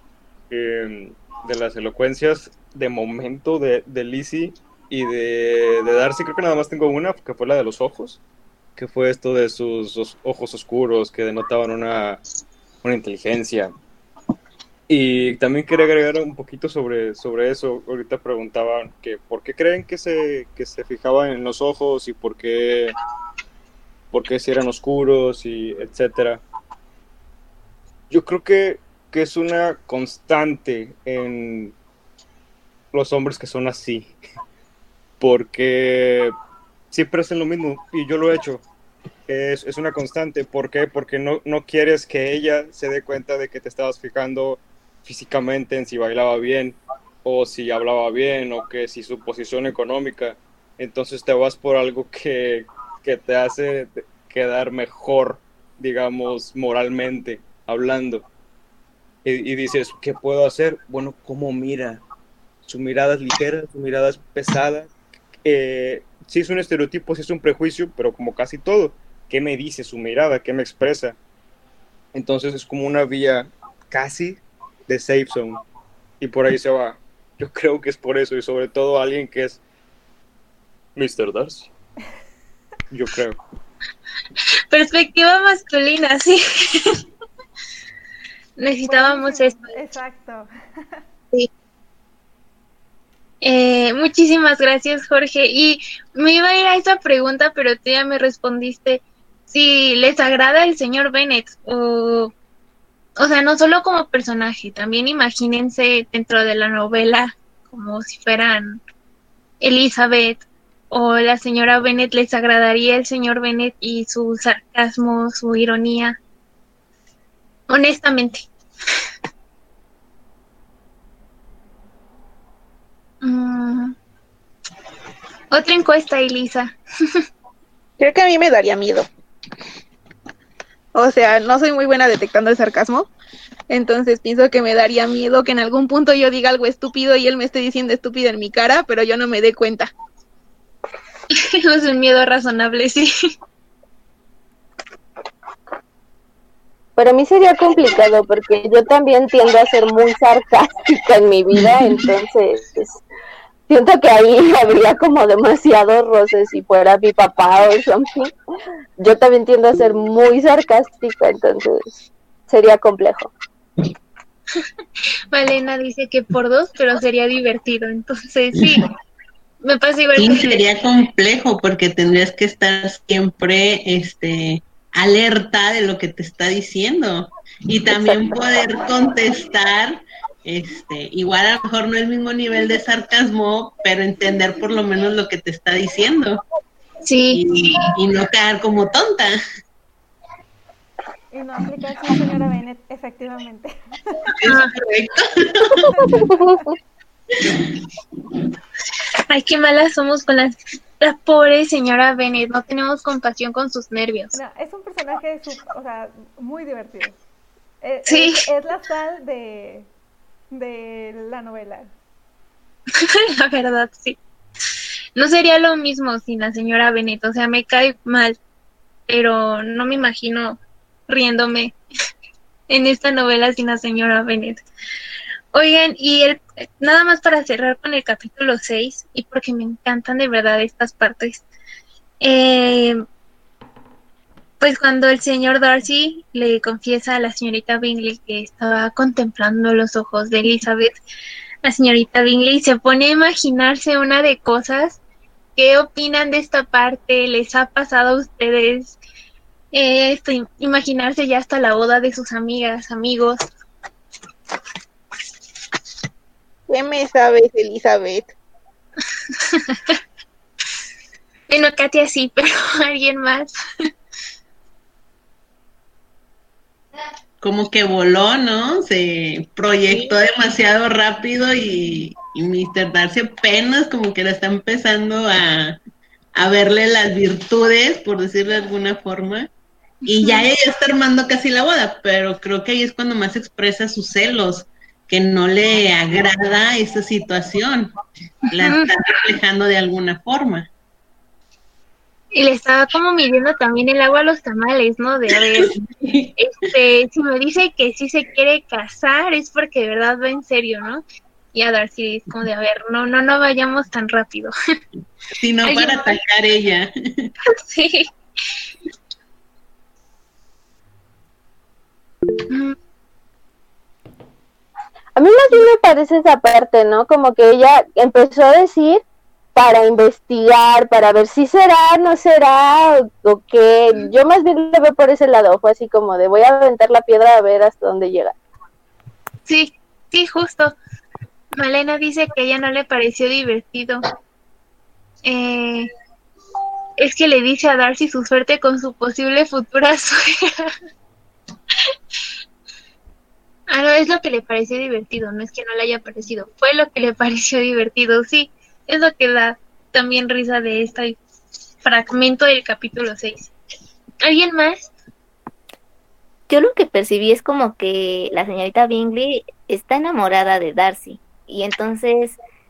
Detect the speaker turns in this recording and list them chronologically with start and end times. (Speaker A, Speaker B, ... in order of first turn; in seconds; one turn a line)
Speaker A: 0.5-8.2
Speaker A: 8.8-12.2
Speaker A: 12.8-13.7
Speaker A: 14.9-23.0
Speaker A: 24.1-26.4
Speaker A: 28.1-31.8
Speaker A: 32.9-34.1
Speaker A: 35.2-36.4
Speaker A: 36.9-38.6
Speaker A: 39.3-58.3
Speaker A: 59.2-62.0
Speaker A: 62.7-64.9
Speaker A: 65.4-71.2
Speaker A: 72.1-75.6
Speaker A: 76.2-79.6
Speaker A: 81.0-81.7
Speaker A: 82.9-83.4
Speaker B: 84.7-87.0
Speaker B: 88.6-89.7
Speaker C: 88.8-91.0
Speaker B: 93.4-102.3
Speaker B: 103.2-108.8
Speaker B: 109.6-116.2
Speaker B: 117.7-118.5
Speaker B: 123.2-124.0
Speaker B: 125.5-127.2
Speaker D: 128.0-129.1
Speaker D: 130.9-133.1
Speaker D: 133.7-139.9
Speaker B: 141.3-143.1
Speaker E: 147.0-153.0
Speaker E: 153.7-158.3
Speaker E: 159.0-161.9
Speaker E: 162.5-163.3
Speaker B: 165.3-168.9
Speaker B: 169.6-170.6
Speaker F: 170.2-186.4
Speaker B: 187.1-187.9
Speaker F: 187.3-189.4
Speaker C: 191.3-194.2
Speaker F: 194.4-196.0
Speaker B: 194.5-194.7
Speaker E: 196.3-196.6
Speaker B: 199.3-204.3
Speaker C: 204.3-207.2
Speaker C: 207.8-209.9
Speaker C: 210.5-211.9
Speaker B: 212.9-214.2
Speaker B: 215.2-218.4
Speaker B: 219.1-221.8
Speaker B: 222.7-224.7
Speaker B: 225.5-231.4
Speaker B: 232.2-233.0
Speaker B: 234.6-240.9
Speaker B: 241.6-245.0
Speaker B: 245.6-249.0
Speaker B: 249.7-253.4
Speaker D: 256.7-258.3
Speaker B: 259.5-260.0
Speaker B: 261.5-263.5
Speaker F: 267.4-275.8
Speaker B: 269.9-270.1
Speaker F: 276.4-279.5
Speaker F: 280.1-287.9
Speaker B: 280.1-280.5
Speaker F: 288.5-290.7
Speaker B: 288.6-288.9
Speaker B: 292.3-295.7
Speaker F: 295.5-296.3
Speaker B: 296.4-304.5
Speaker F: 305.4-307.3
Speaker B: 305.6-306.2
Speaker B: 307.5-308.1
Speaker B: 312.5-312.8
Speaker E: 315.2-319.0
Speaker E: 319.5-328.3
Speaker B: 329.5-330.8
Speaker B: 331.6-334.0
Speaker B: 335.2-335.9
Speaker B: 337.0-340.8
Speaker B: 343.7-351.2
Speaker B: 351.8-353.5
Speaker B: 354.2-354.9
Speaker G: 356.5-362.4